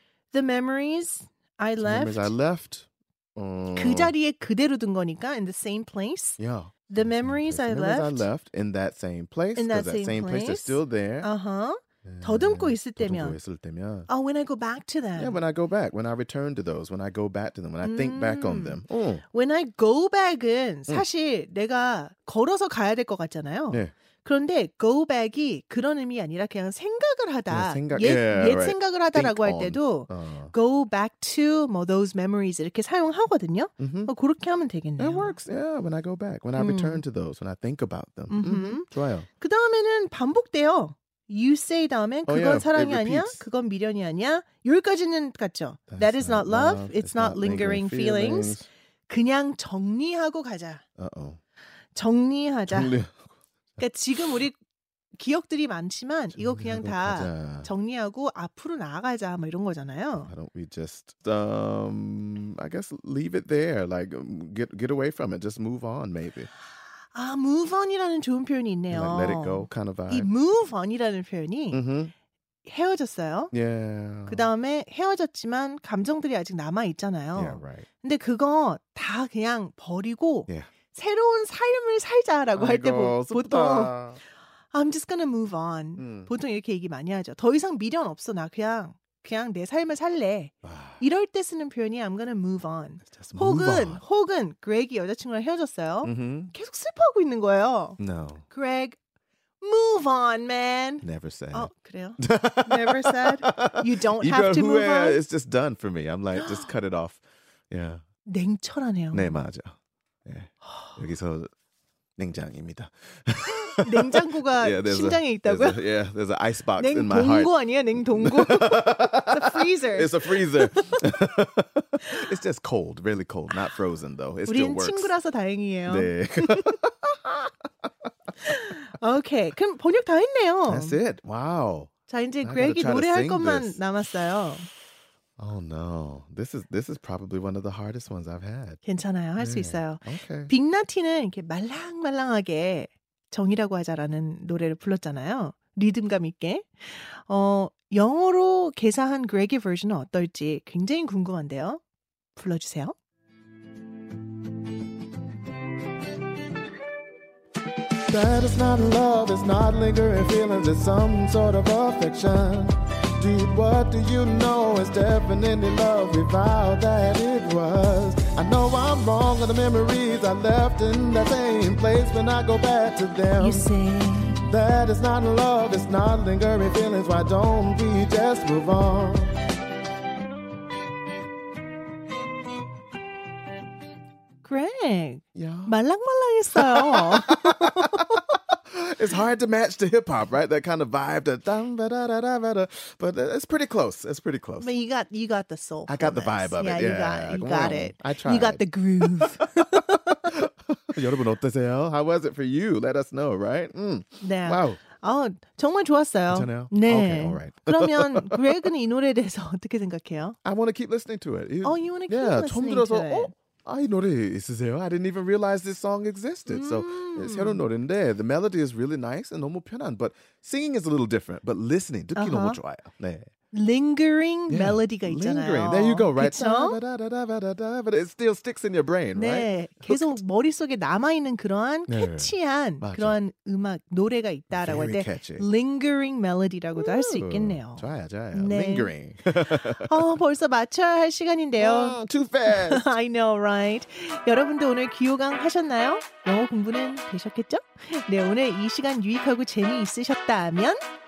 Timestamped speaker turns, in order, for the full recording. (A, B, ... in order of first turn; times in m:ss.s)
0:00.3-0:02.3 A
0:01.8-0:04.1 B
0:03.8-0:08.3 A
0:06.4-0:11.3 B
0:09.6-0:13.4 A
0:12.0-0:14.1 B
0:14.1-0:15.4 A
0:15.2-0:19.2 B
0:17.8-0:35.4 A
0:27.5-0:30.5 B
0:33.8-0:34.1 B
0:35.0-0:39.3 B
0:36.6-0:37.0 A
0:38.3-0:50.8 A
0:42.3-0:43.4 B
0:45.9-0:48.6 B
0:51.0-0:51.4 B
0:52.0-0:52.9 A
0:52.7-0:53.3 B
0:53.8-0:54.6 A
0:55.2-1:00.3 A
0:56.4-0:57.7 B
1:00.2-1:06.5 B
1:07.1-1:11.8 A
1:08.9-1:10.3 B
1:11.7-1:12.1 B
1:12.6-1:13.5 A
1:13.5-1:14.5 B
1:14.2-1:23.9 A
1:17.4-1:17.9 B
1:22.6-1:24.2 B
1:24.7-1:38.0 A
1:26.0-1:26.3 B
1:30.6-1:31.0 B
1:33.1-1:34.0 B
1:36.0-1:36.5 B
1:38.0-1:38.5 B
1:38.5-1:39.0 A
1:39.6-1:45.2 A
1:41.0-1:48.0 B
1:46.4-1:46.6 A
1:48.2-1:49.4 A
1:49.1-1:49.7 B
1:50.2-1:51.5 B
1:50.6-1:51.0 A
1:52.2-2:05.1 B
1:53.8-1:55.8 A
1:56.8-2:01.0 A
2:02.0-2:02.3 A
2:04.5-2:06.8 A
2:05.9-2:07.5 B
2:08.4-2:11.0 A
2:10.7-2:13.8 B
2:12.1-2:14.7 A
2:15.4-2:18.8 B
2:18.8-2:31.8 A
2:19.4-2:20.5 B
2:32.4-2:33.0 A
2:38.1-2:53.7 B
2:53.4-2:54.5 A
2:54.4-2:59.4 B
3:04.4-3:08.4 A
3:05.4-3:05.8 B
3:06.5-3:14.7 B
3:14.6-3:20.4 A
3:15.9-3:24.8 B
3:24.2-3:30.4 A
3:26.3-3:28.7 B
3:30.4-3:43.3 B
3:31.6-3:33.3 A
3:36.5-3:37.6 A
3:42.1-3:42.6 A
3:43.5-3:46.8 A
3:44.5-3:50.2 B
3:49.1-4:10.8 A
3:51.9-3:53.2 B
3:54.5-3:55.5 B
3:56.8-4:00.1 B
4:01.6-4:02.8 B